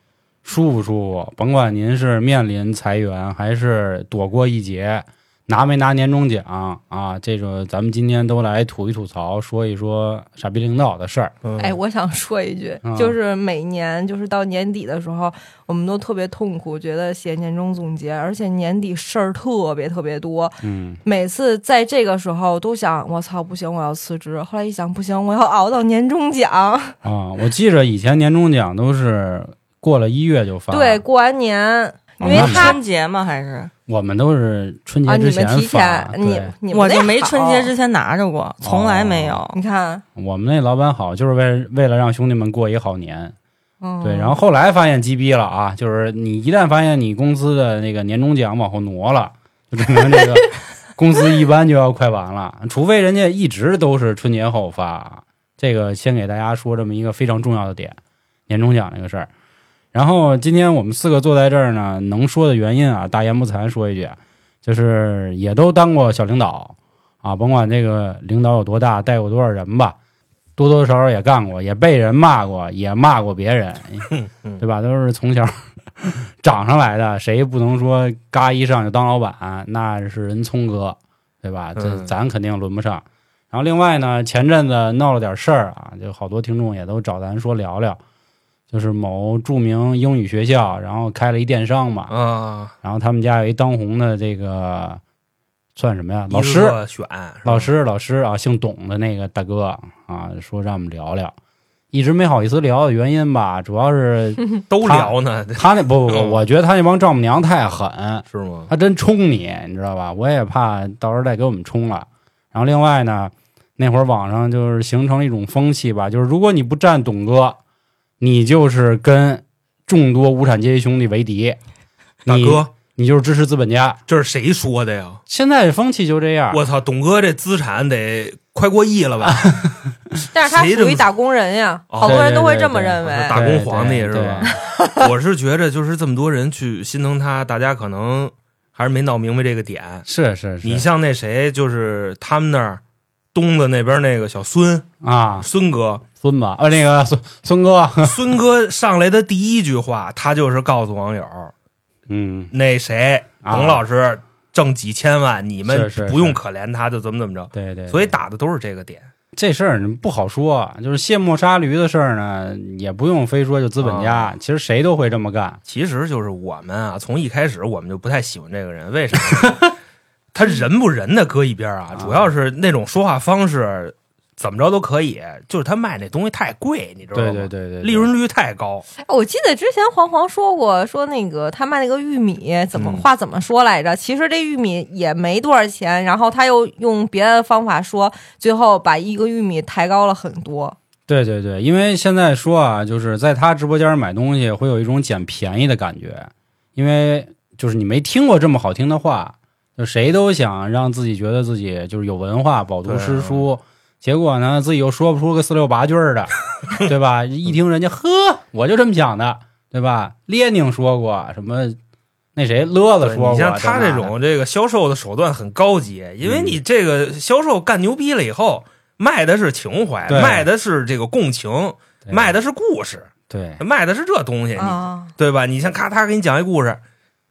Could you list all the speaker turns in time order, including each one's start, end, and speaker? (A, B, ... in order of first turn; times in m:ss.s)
0:00.4-0:11.3 A
0:11.4-0:11.8 B
0:11.6-0:27.0 C
0:12.8-0:13.2 A
0:20.6-0:21.0 A
0:27.0-0:31.0 A
0:30.7-0:32.8 C
0:32.2-0:33.7 D
0:32.2-0:32.8 A
0:33.9-0:36.5 A
0:35.0-0:37.7 C
0:36.7-0:39.6 D
0:38.6-0:39.4 A
0:39.5-0:40.0 C
0:40.1-0:43.3 A
0:43.8-0:44.4 C
0:44.0-0:58.0 A
0:58.5-0:59.3 A
0:59.9-1:10.0 A
1:10.6-1:28.0 A
1:14.1-1:14.6 B
1:21.8-1:22.1 B
1:28.7-1:32.1 A
1:32.1-1:32.7 B
1:32.8-1:35.0 A
1:35.8-1:36.8 A
1:36.3-1:37.7 B
1:37.4-1:41.3 A
1:41.9-1:57.6 A
1:44.7-1:46.4 B
1:48.3-1:48.7 B
1:58.2-2:01.6 A
2:02.2-2:02.7 B
2:02.2-2:04.0 A
2:04.1-2:05.2 B
2:05.3-2:06.6 A
2:06.5-2:09.6 B
2:09.2-2:10.1 A
2:10.3-2:13.5 C
2:10.4-2:11.1 B
2:11.9-2:12.3 B
2:12.0-2:14.6 A
2:13.0-2:20.0 B
2:14.4-2:15.1 C
2:20.0-2:20.9 A
2:20.6-2:22.8 B
2:23.3-2:24.9 B
2:25.0-2:25.5 A
2:25.4-2:26.0 B
2:26.2-2:28.3 A
2:28.0-2:31.5 B
2:32.1-2:32.5 A
2:32.5-2:39.1 B
2:33.4-2:33.8 A
2:35.6-2:36.4 A
2:37.5-2:38.1 A
2:39.3-2:45.6 A
2:43.8-2:44.3 B
2:45.6-2:49.7 B
2:50.3-2:58.8 B
2:51.9-2:52.3 A
2:57.1-2:58.1 A
2:59.0-3:10.8 C
3:02.7-3:03.1 B
3:11.1-3:31.8 A
3:22.8-3:23.4 B
3:32.4-3:34.1 A
3:33.0-3:46.8 B
3:36.2-3:36.6 A
3:40.1-3:40.5 A
3:42.0-3:42.3 A
3:43.3-3:43.6 A
3:44.6-3:45.1 C